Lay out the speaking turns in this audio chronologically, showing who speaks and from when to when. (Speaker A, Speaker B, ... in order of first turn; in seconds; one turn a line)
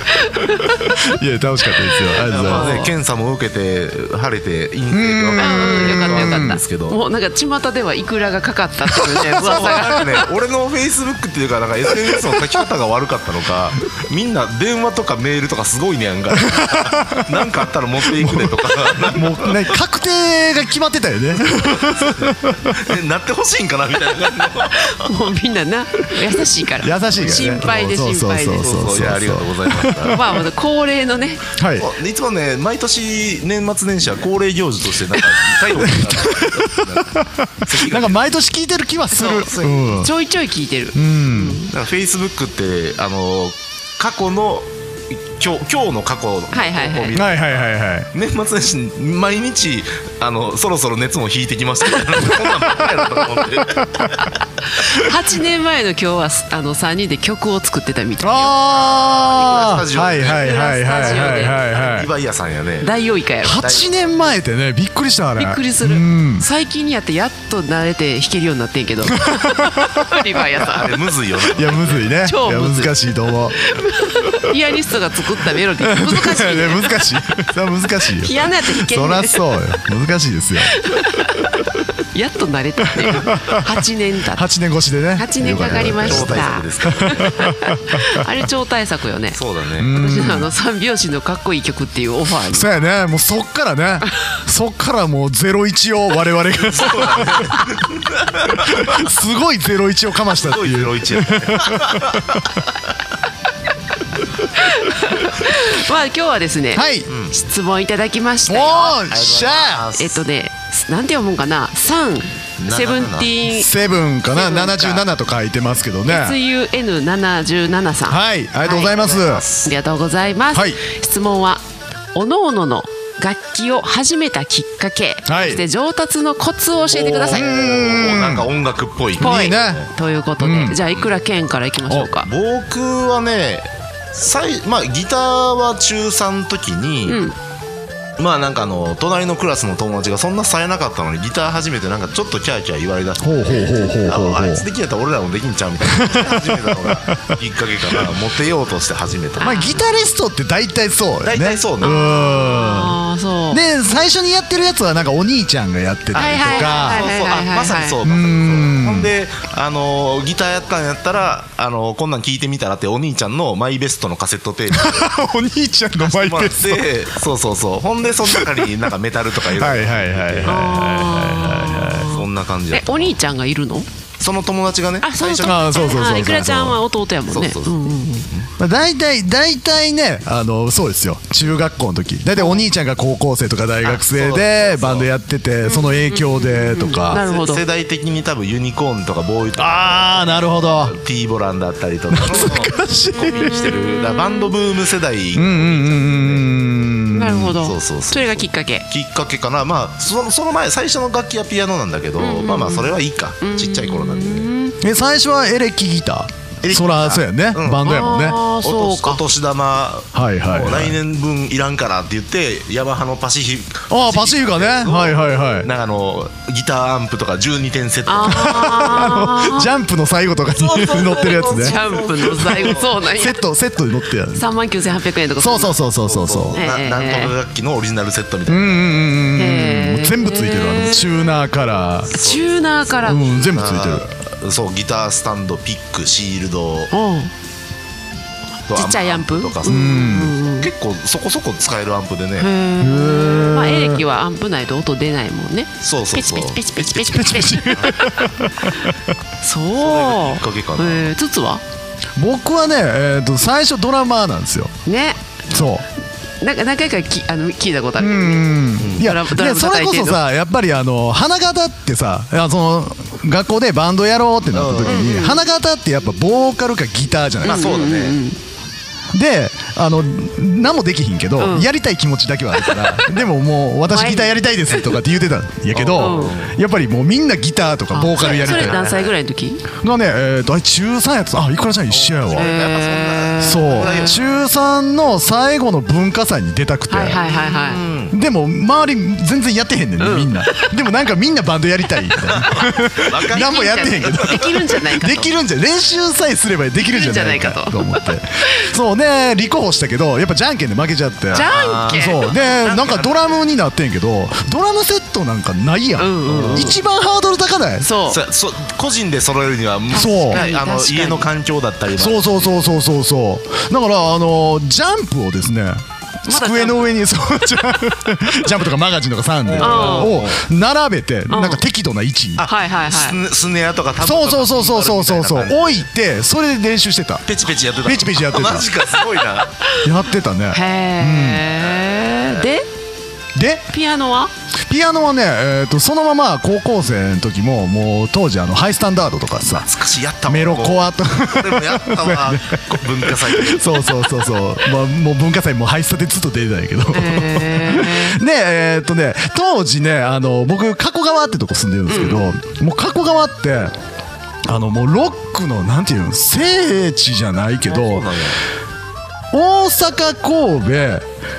Speaker A: 0.2-0.7
Speaker B: 0.4-2.9
Speaker C: 2.2-7.0
Speaker A: 2.4-2.9
Speaker B: 4.9-6.6
Speaker A: 5.4-10.1
Speaker B: 9.2-10.1
Speaker C: 9.4-19.8
Speaker B: 11.9-12.6
Speaker B: 16.3-17.4
Speaker B: 18.1-22.8
Speaker C: 21.6-25.1
Speaker A: 24.7-28.8
Speaker B: 26.8-30.4
Speaker C: 27.2-27.6
Speaker C: 28.5-30.2
Speaker A: 30.1-31.4
Speaker B: 31.6-31.9
Speaker C: 31.8-38.3
Speaker B: 35.8-40.1
Speaker A: 39.1-41.7
Speaker C: 39.2-39.9
Speaker B: 40.9-41.6
Speaker C: 41.7-54.1
Speaker A: 46.5-47.2
Speaker B: 47.1-48.1
Speaker A: 54.1-58.5
Speaker B: 58.2-62.1
Speaker C: 59.3-62.9
Speaker A: 60.3-61.6
Speaker A: 62.8-63.8
Speaker B: 63.4-66.5
Speaker A: 65.3-71.0
Speaker B: 69.1-69.9
Speaker C: 70.5-72.1
Speaker B: 71.5-73.6
Speaker A: 72.2-73.0
Speaker A: 73.5-77.1
Speaker B: 75.8-80.9
Speaker A: 78.2-79.6
Speaker A: 80.8-84.4
Speaker B: 83.0-88.0
Speaker A: 85.2-92.7
Speaker C: 85.7-87.3
Speaker C: 89.3-89.9
Speaker B: 89.8-90.5
Speaker B: 92.5-97.6
Speaker C: 96.6-99.1
Speaker B: 98.5-102.6
Speaker C: 100.3-102.5
Speaker A: 104.5-109.0
Speaker B: 106.7-107.1
Speaker C: 107.1-107.3
Speaker B: 108.5-109.8
Speaker C: 109.0-110.2
Speaker A: 109.9-113.7
Speaker C: 112.6-113.3
Speaker B: 113.4-116.4
Speaker A: 114.3-115.0
Speaker A: 116.1-118.9
Speaker B: 118.1-119.4
Speaker C: 118.9-119.7
Speaker A: 119.6-121.6
Speaker B: 120.5-120.8
Speaker A: 122.1-127.5
Speaker B: 125.2-125.6
Speaker C: 126.9-129.9
Speaker B: 127.3-128.5
Speaker B: 129.2-129.9
Speaker A: 129.2-132.3
Speaker B: 130.4-130.8
Speaker C: 132.2-137.2
Speaker A: 137.1-137.3
Speaker C: 138.2-149.8
Speaker B: 143.2-144.7
Speaker B: 145.8-147.3
Speaker A: 149.4-149.8
Speaker B: 149.4-152.9
Speaker C: 151.2-151.9
Speaker A: 151.8-153.6
Speaker B: 153.5-157.1
Speaker C: 156.1-165.1
Speaker A: 156.1-158.0
Speaker B: 158.0-159.1
Speaker B: 164.7-166.8
Speaker C: 166.0-170.6
Speaker B: 168.2-168.7
Speaker B: 169.5-172.1
Speaker A: 170.4-173.9
Speaker C: 172.1-173.2
Speaker C: 174.2-176.3
Speaker A: 175.0-178.3
Speaker B: 175.4-176.8
Speaker C: 177.3-178.5
Speaker B: 178.6-187.2
Speaker A: 182.3-182.7
Speaker C: 183.8-185.1
Speaker A: 185.7-187.6
Speaker C: 187.1-196.5
Speaker B: 189.6-190.9
Speaker B: 192.1-193.8
Speaker A: 193.4-194.5
Speaker B: 195.3-197.6
Speaker A: 197.1-198.8
Speaker C: 197.6-204.5
Speaker A: 202.2-204.8
Speaker B: 204.8-208.4
Speaker C: 206.6-219.3
Speaker A: 207.8-209.2
Speaker B: 210.1-210.9
Speaker B: 213.9-215.7
Speaker A: 218.1-219.7
Speaker B: 218.2-221.8
Speaker C: 220.5-222.9
Speaker A: 221.4-223.4
Speaker B: 222.4-224.4
Speaker A: 224.3-225.8
Speaker B: 225.4-226.6
Speaker C: 226.0-228.9
Speaker A: 226.5-227.3
Speaker B: 228.5-232.1
Speaker A: 229.3-231.3
Speaker C: 232.1-236.9
Speaker A: 232.1-233.3
Speaker B: 233.0-234.1
Speaker A: 236.9-237.3
Speaker C: 238.7-239.9
Speaker A: 238.7-240.7
Speaker B: 239.6-240.3
Speaker C: 240.6-242.5
Speaker A: 242.4-248.8
Speaker B: 242.8-244.0
Speaker C: 245.8-246.8
Speaker B: 246.8-248.9
Speaker A: 249.4-251.6
Speaker C: 249.8-251.1
Speaker B: 252.2-254.7
Speaker A: 254.8-255.2
Speaker C: 255.5-255.7
Speaker B: 255.5-255.8
Speaker A: 256.4-260.2
Speaker B: 258.0-267.8
Speaker C: 258.8-259.1
Speaker C: 264.5-265.1
Speaker A: 264.8-265.4
Speaker C: 267.4-268.1
Speaker A: 267.4-268.4
Speaker B: 269.1-278.8
Speaker A: 271.4-271.7
Speaker A: 272.6-272.9
Speaker A: 273.9-274.9
Speaker C: 275.7-276.6
Speaker A: 275.9-276.3
Speaker A: 277.9-279.6
Speaker C: 278.2-279.1
Speaker B: 279.8-282.5
Speaker C: 281.9-284.2
Speaker A: 282.3-284.3
Speaker B: 283.4-287.2
Speaker A: 286.9-287.8
Speaker C: 287.0-288.1
Speaker B: 288.1-307.9
Speaker A: 290.0-290.7
Speaker C: 292.3-294.6
Speaker A: 293.3-295.3
Speaker A: 296.8-298.6
Speaker C: 301.3-303.3
Speaker A: 301.3-302.3
Speaker A: 306.0-306.8
Speaker C: 306.2-306.8
Speaker A: 307.8-308.2
Speaker C: 308.1-312.5
Speaker B: 309.9-310.5
Speaker A: 309.9-311.3
Speaker B: 311.9-322.5
Speaker A: 316.3-316.9
Speaker C: 319.4-320.4
Speaker A: 319.6-320.2
Speaker A: 321.3-321.6
Speaker C: 322.4-325.9
Speaker A: 322.4-323.2
Speaker B: 324.0-327.3
Speaker C: 327.2-329.5
Speaker B: 327.8-328.7
Speaker B: 329.8-331.5
Speaker A: 330.5-332.7
Speaker C: 331.7-332.4
Speaker B: 333.4-333.7
Speaker A: 333.7-334.3
Speaker B: 334.7-339.7
Speaker C: 339.5-344.0
Speaker B: 340.2-353.7
Speaker A: 346.9-348.1
Speaker A: 351.9-352.2
Speaker B: 354.4-358.1
Speaker C: 357.6-358.4
Speaker B: 359.3-361.1